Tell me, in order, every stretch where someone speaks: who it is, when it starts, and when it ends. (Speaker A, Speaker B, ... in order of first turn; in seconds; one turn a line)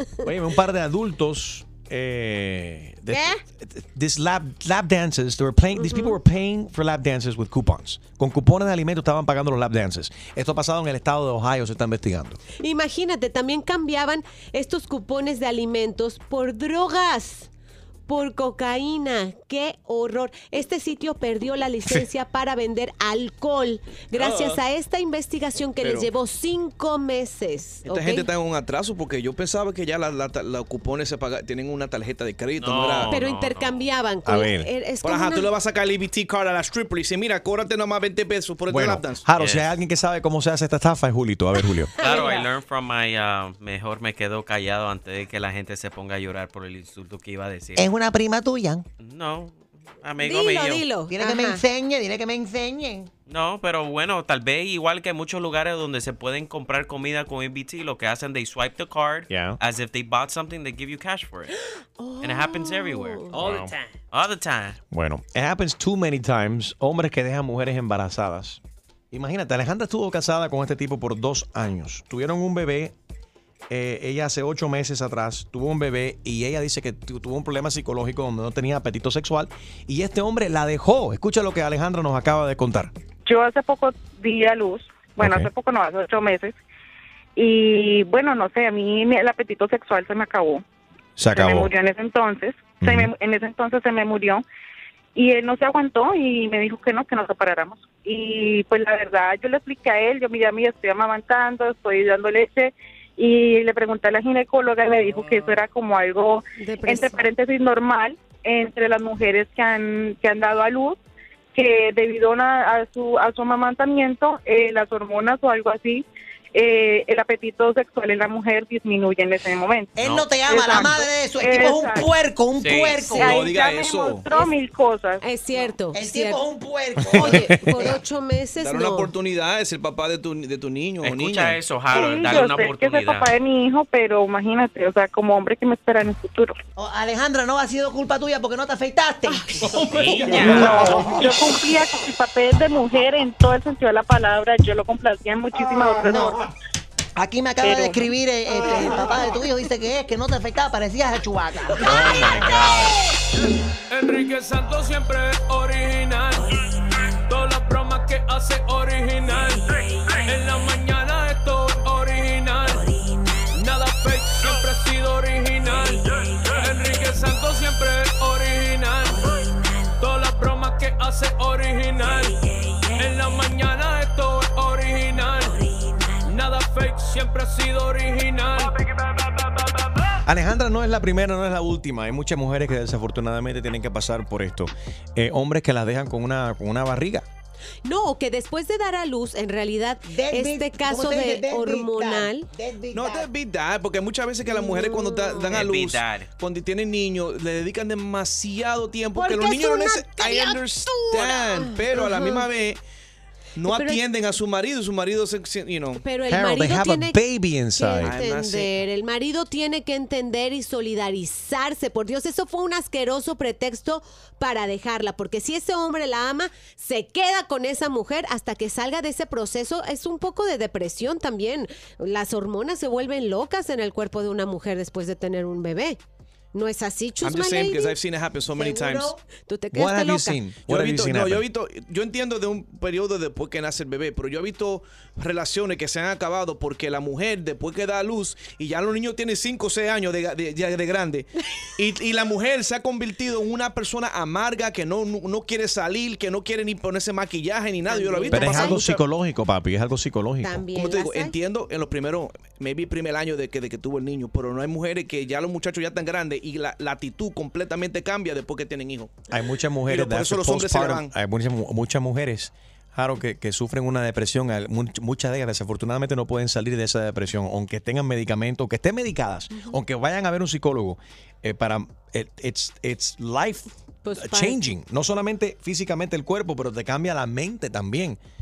Speaker A: 0.2-12.4
Speaker B: 3.1-3.4
Speaker B: 5.8-6.2
Speaker B: 12.6-17.5
Speaker B: 18.1-28.3
Speaker C: 24.1-24.6
Speaker C: 25.8-26.1
Speaker C: 27.9-33.1
Speaker D: 32.6-33.9
Speaker B: 33.1-35.5
Speaker A: 34.2-34.7
Speaker C: 35.0-39.2
Speaker A: 38.7-41.9
Speaker D: 39.4-39.7
Speaker B: 42.0-42.4
Speaker D: 42.0-47.9
Speaker E: 47.8-48.9
Speaker D: 49.0-50.8
Speaker B: 50.2-51.6
Speaker E: 51.1-53.1
Speaker D: 53.3-61.5
Speaker A: 59.3-59.6
Speaker B: 62.0-63.4
Speaker D: 62.2-64.8
Speaker F: 63.3-63.9
Speaker A: 64.9-68.6
Speaker A: 69.1-73.0
Speaker A: 73.7-82.9
Speaker G: 83.2-86.6
Speaker A: 85.2-85.5
Speaker G: 87.4-90.6
Speaker A: 91.2-91.7
Speaker G: 91.3-94.4
Speaker A: 92.8-93.1
Speaker G: 95.2-111.0
Speaker B: 106.6-107.2
Speaker G: 111.5-119.9
Speaker E: 120.0-123.5
Speaker D: 120.0-120.3
Speaker G: 120.5-122.1
Speaker D: 122.6-123.2
Speaker B: 123.1-123.4
Speaker G: 123.2-125.2
Speaker C: 123.2-124.5
Speaker B: 125.2-126.4
Speaker E: 125.9-128.0
Speaker A: 127.0-127.6
Speaker B: 127.1-129.1
Speaker C: 128.6-131.6
Speaker D: 131.0-133.3
Speaker G: 131.9-136.6
Speaker E: 136.8-139.7
Speaker D: 139.8-140.9
Speaker E: 140.2-141.1
Speaker G: 140.3-146.4
Speaker E: 146.0-146.3
Speaker E: 147.2-152.7
Speaker G: 147.6-148.0
Speaker F: 152.0-152.8
Speaker D: 152.2-152.6
Speaker F: 154.2-156.3
Speaker F: 157.3-159.4
Speaker F: 160.4-161.3
Speaker F: 163.5-164.3
Speaker F: 164.9-165.8
Speaker F: 166.6-167.9
Speaker F: 168.4-169.1
Speaker F: 170.0-172.3
Speaker F: 173.0-175.5
Speaker F: 176.2-178.7
Speaker A: 180.3-187.3
Speaker B: 187.8-192.5
Speaker E: 190.1-193.3
Speaker C: 192.9-202.8
Speaker B: 194.5-195.6
Speaker D: 195.5-196.3
Speaker B: 199.2-202.5
Speaker C: 203.6-206.0
Speaker B: 203.7-204.0
Speaker B: 206.0-207.2
Speaker A: 206.3-208.1
Speaker B: 207.7-226.0
Speaker C: 208.0-208.7
Speaker B: 226.5-227.9
Speaker C: 227.2-229.1
Speaker E: 228.6-229.2
Speaker B: 229.5-230.4
Speaker A: 229.7-231.4
Speaker C: 230.7-249.0
Speaker B: 247.9-248.9
Speaker A: 248.3-250.7
Speaker B: 250.4-251.3
Speaker C: 250.7-259.1
Speaker A: 259.3-278.2
Speaker C: 259.9-261.1
Speaker B: 269.5-269.8
Speaker B: 274.0-274.7